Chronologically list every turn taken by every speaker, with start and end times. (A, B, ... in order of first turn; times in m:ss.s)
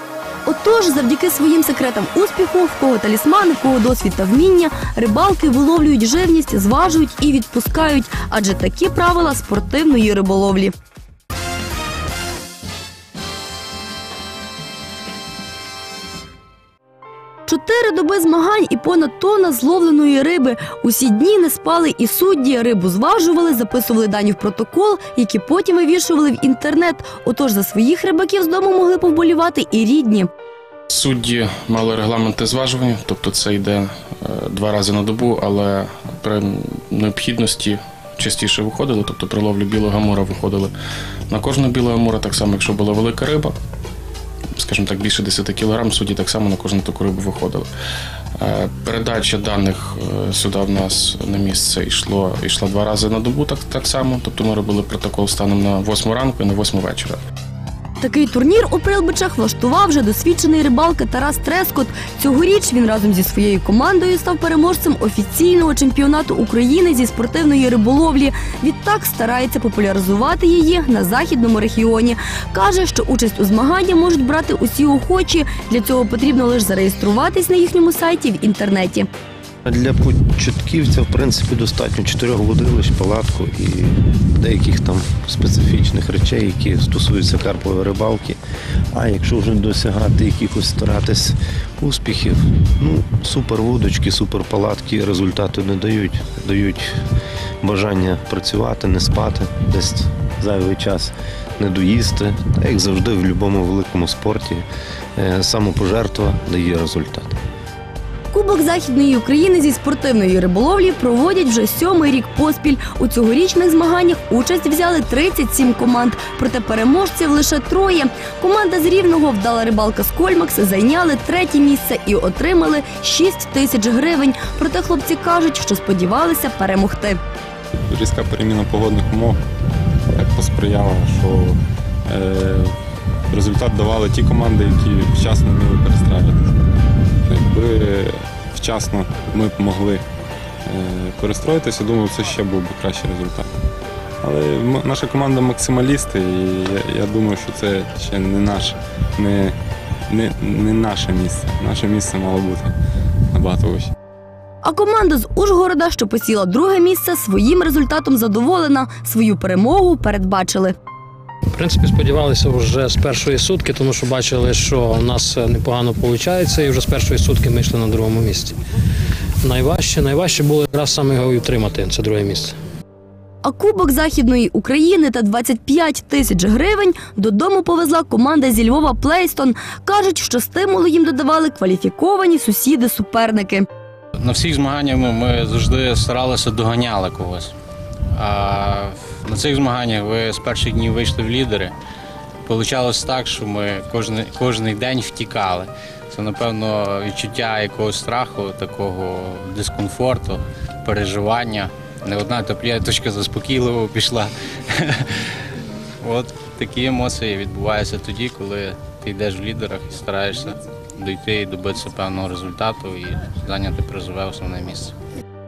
0:00.4-0:10.7 A
0:17.5-0:30.3 A
0:30.9-0:40.7 B
0:41.3-0:43.5 B
0:44.6-0:47.7 B
0:48.4-0:57.2 B
0:58.0-1:19.1 A
1:19.6-1:28.4 C
1:28.9-1:37.0 C
1:37.6-1:47.4 C
1:48.3-2:07.2 A
2:07.8-2:09.4 D
2:10.1-2:12.8 D
2:13.3-2:16.7 D
2:17.2-2:20.0 D
2:20.6-2:23.5 D
2:24.2-2:32.7 D
2:33.3-2:33.9 D
2:34.6-2:40.7 A
2:41.5-2:48.6 E
2:49.4-2:52.6 E
2:53.4-3:03.7 A
3:04.2-3:07.5 F
3:08.2-3:11.7 F
3:12.4-3:25.1 F
3:26.0-3:34.9 F